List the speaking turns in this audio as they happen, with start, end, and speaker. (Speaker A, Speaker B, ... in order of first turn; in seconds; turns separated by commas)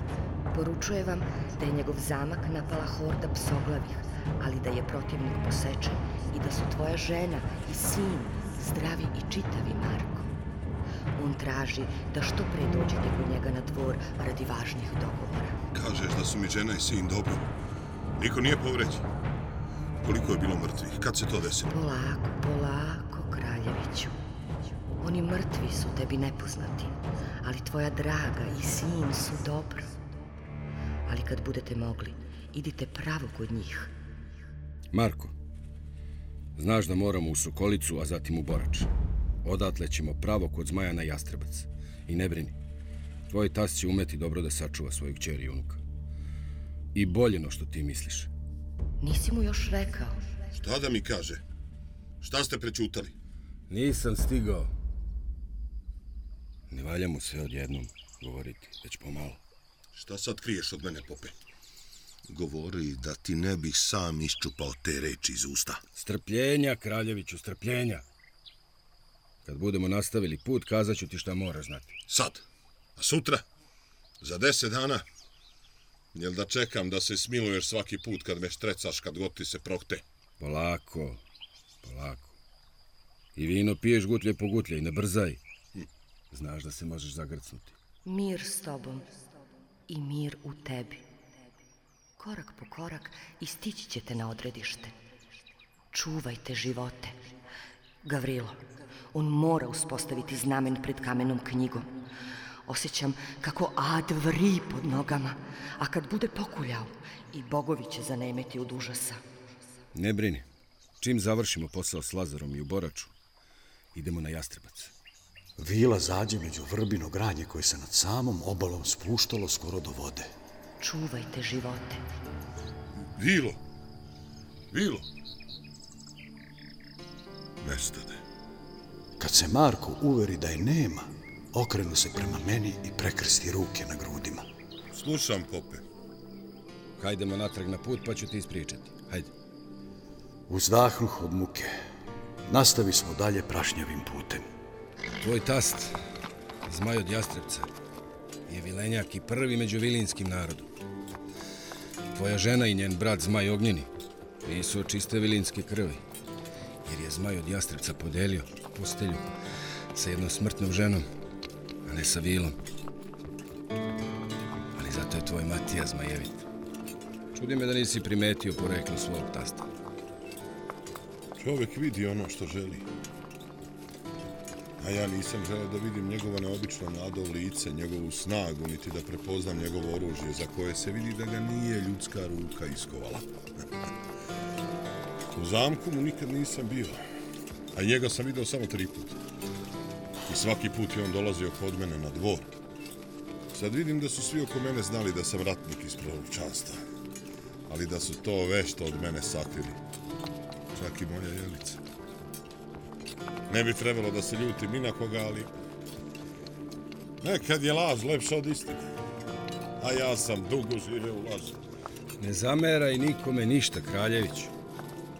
Speaker A: 0.5-10.3, Speaker A: 11.2-15.6, Speaker B: 15.7-17.5, Speaker B: 18.2-19.1, Speaker B: 20.0-21.7, Speaker A: 21.7-24.1, Speaker A: 25.0-29.9, Speaker A: 31.1-33.9, Speaker C: 34.9-35.3, Speaker C: 36.5-38.9, Speaker C: 39.4-42.5, Speaker C: 43.3-45.8, Speaker C: 46.9-48.3, Speaker A: 49.0-50.2, Speaker B: 50.5-51.4, Speaker B: 52.2-53.1, Speaker C: 53.7-54.7, Speaker C: 56.7-59.4, Speaker B: 59.9-61.4, Speaker B: 62.3-65.8, Speaker C: 66.0-68.0, Speaker C: 69.4-72.0, Speaker B: 72.1-72.4, Speaker B: 73.0-73.4, Speaker B: 74.2-75.0, Speaker B: 76.1-80.0, Speaker C: 80.4-81.2, Speaker C: 81.8-82.3, Speaker C: 83.3-85.4, Speaker C: 86.3-87.8, Speaker A: 88.0-89.1, Speaker A: 89.9-91.0, Speaker A: 92.2-94.9, Speaker A: 95.9-97.2, Speaker A: 98.0-98.6, Speaker A: 99.1-101.9, Speaker A: 102.7-109.2, Speaker C: 109.9-110.5, Speaker C: 111.0-113.1, Speaker C: 113.9-114.9, Speaker D: 115.6-120.3, Speaker A: 120.8-122.0, Speaker B: 123.1-123.6, Speaker B: 124.7-125.0, Speaker B: 127.6-128.2, Speaker D: 129.2-134.5, Speaker B: 134.9-135.8, Speaker C: 137.0-139.3, Speaker D: 140.5-141.7, Speaker D: 142.5-144.4, Speaker C: 145.2-146.0, Speaker C: 146.6-147.7, Speaker C: 148.5-150.7, Speaker C: 152.1-153.9, Speaker C: 154.4-156.0, Speaker C: 156.8-159.3, Speaker C: 159.9-161.1, Speaker C: 161.8-162.6, Speaker C: 164.7-166.4, Speaker C: 167.3-169.7, Speaker B: 171.4-172.9, Speaker B: 174.8-183.2, Speaker B: 185.3-187.0, Speaker B: 187.7-189.2, Speaker B: 190.2-192.6, Speaker B: 193.5-196.8, Speaker B: 197.7-199.8, Speaker B: 200.7-201.8, Speaker B: 203.5-205.5, Speaker B: 207.2-208.8, Speaker B: 209.8-211.6, Speaker C: 212.2-214.5